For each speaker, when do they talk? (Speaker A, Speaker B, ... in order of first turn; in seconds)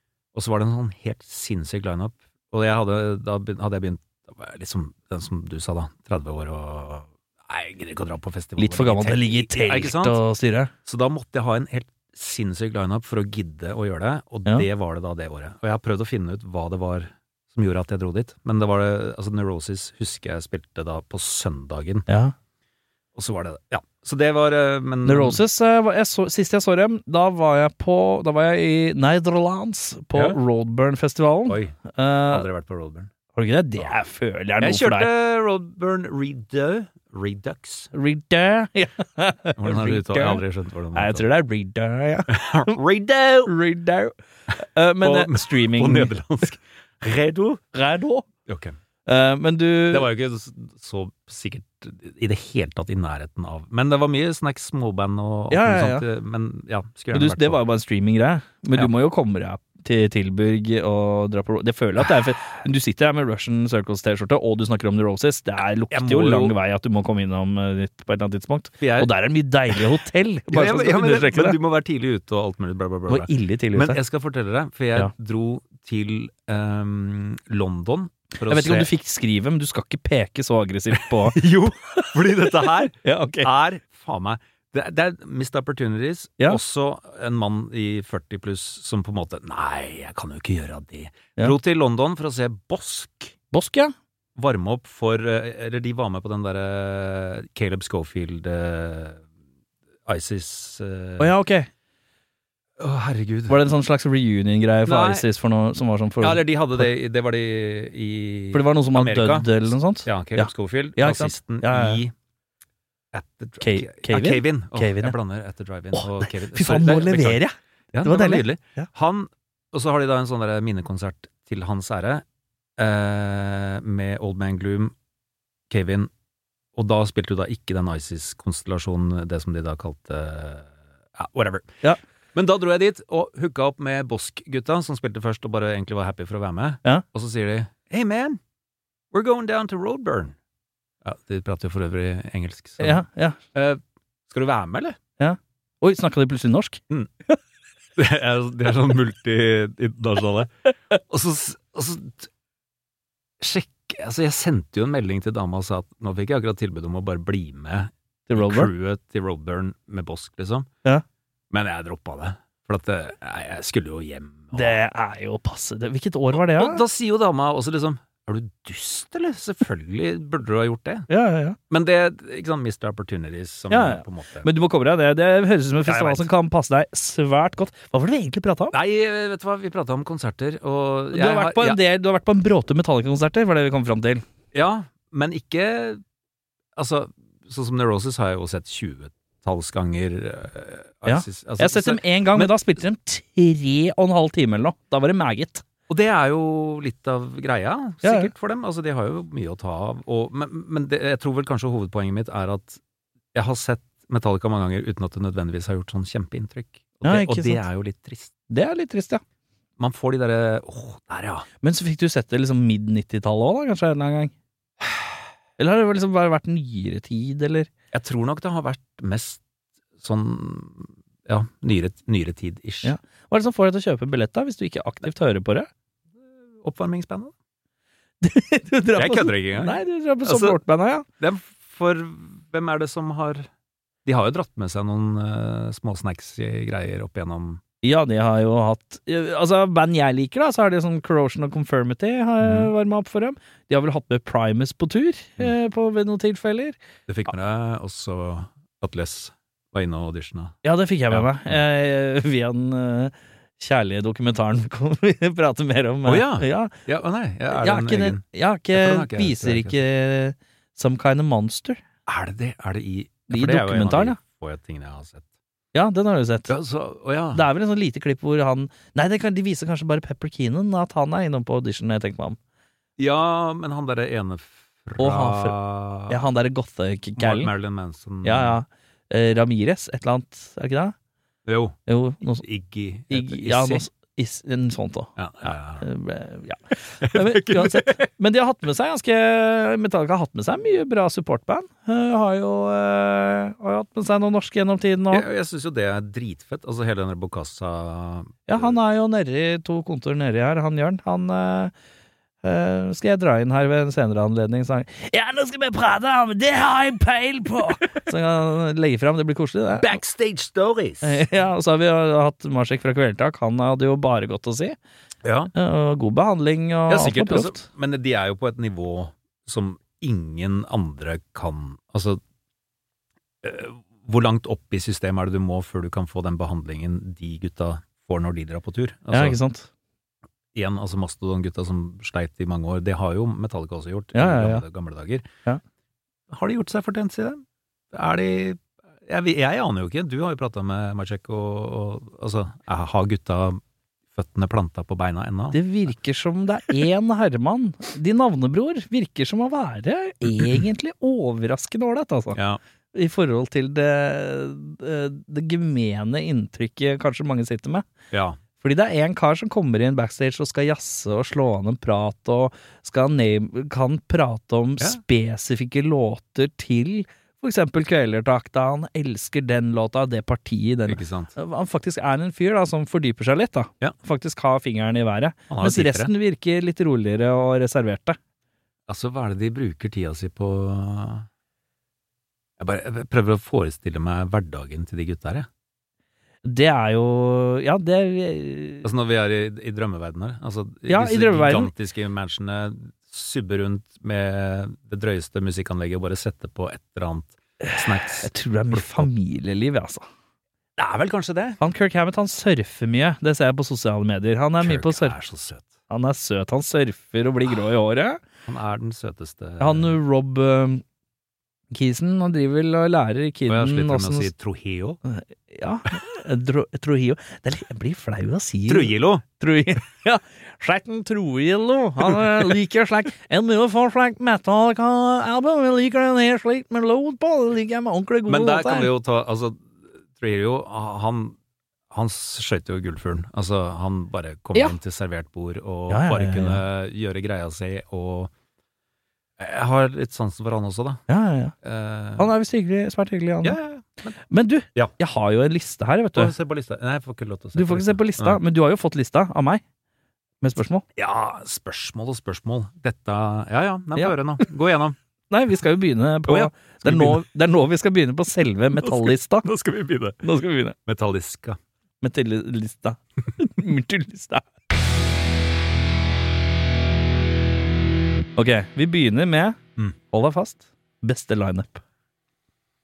Speaker A: 0.3-10.2, 10.8-22.1, 23.1-25.4, 30.1-30.4, 31.5-31.8, 32.3-33.1, 34.6-37.9, 39.6-41.2, 42.3-43.5, 45.0-47.6, 48.5-48.8, 49.9-57.6, 65.9-66.5, 68.8-69.1, 70.5-78.9, 80.9-93.3, 94.4-99.2, 100.0-101.3, 102.8-103.6, 104.9-105.2, 106.2-112.1, 113.1-122.2, 122.8-124.9, 125.7-126.1, 126.8-131.8, 132.3-138.4, 139.1-140.3, 141.0-143.0, 143.5-145.0, 147.9-152.3, 153.4-160.7, 161.5-164.8, 166.3-171.1, 171.7-174.5, 175.8-176.3, 178.7-181.8, 184.5-186.0, 186.8-192.5, 195.9-202.8, 203.3-208.3, 209.8-211.5, 217.9-219.4, 220.0-222.9, 226.6-227.3, 228.9-230.6, 231.2-233.5, 234.1-237.6, 242.4-242.7, 247.1-250.6, 251.1-251.6, 256.1-258.2, 258.7-259.8, 262.1-265.3, 266.5-267.4, 273.0-276.2, 277.2-278.6, 281.4-281.8, 282.4-283.9, 285.2-285.9, 287.0-288.0, 295.1-298.8, 309.8-311.2, 315.2-315.5, 316.9-322.2, 323.4-329.4, 330.5-335.2, 336.3-343.6, 344.1-345.6, 350.2-350.6, 352.4-352.6, 358.1-358.4, 370.9-371.3, 375.5-376.1, 378.9-381.3, 382.6-385.5, 388.8-399.1, 400.8-401.6, 404.6-405.7, 408.5-410.0, 413.5-415.0, 418.7-419.2, 428.3-431.4, 431.9-438.3, 439.4-441.0, 441.6-442.3, 443.4-444.2, 446.1-448.4, 450.9-455.0, 456.2-457.2, 458.8-460.2, 460.9-461.6
Speaker B: 8.6-10.7, 22.1-22.3, 25.0-32.5, 33.4-35.1, 37.9-40.4, 40.9-42.8, 43.5-46.1, 47.7-48.3, 49.0-50.1, 55.5-56.0, 57.1-71.6, 73.1-74.0, 78.4-83.5, 93.5-93.9, 101.2-101.7, 103.5-106.9, 108.5-112.0, 113.6-115.1, 115.9-118.9, 142.8-143.4, 145.2-146.8, 158.3-158.7, 164.5-166.8, 171.1-171.6, 173.7-178.8, 181.1-184.2, 191.1-195.6, 198.0-198.3, 207.0-207.6, 208.5-209.2, 211.6-214.3, 215.6-217.7, 222.8-225.7, 228.2-231.1, 237.8-246.8, 250.6-256.7, 257.5-261.8, 263.3-264.2, 265.7-266.5, 267.3-272.4, 275.0-277.5, 278.2-280.9, 281.9-282.4, 283.1-285.1, 285.8-295.2, 298.5-301.7, 302.4-310.0, 311.0-314.8, 315.6-317.6, 329.1-329.7, 334.1-334.6, 345.5-352.4, 352.9-357.9, 358.6-378.2, 386.4-388.9, 390.9-391.7, 397.7-400.1, 401.6-405.1, 405.9-408.2, 409.6-410.8, 411.7-414.3, 415.1-428.9, 435.9-436.6, 441.1-441.6, 442.2-443.6, 444.3-446.3, 447.6-449.6, 450.4-450.8, 455.3-459.5, 460.2-460.8, 462.0-464.4, 468.4-469.6, 470.1-471.8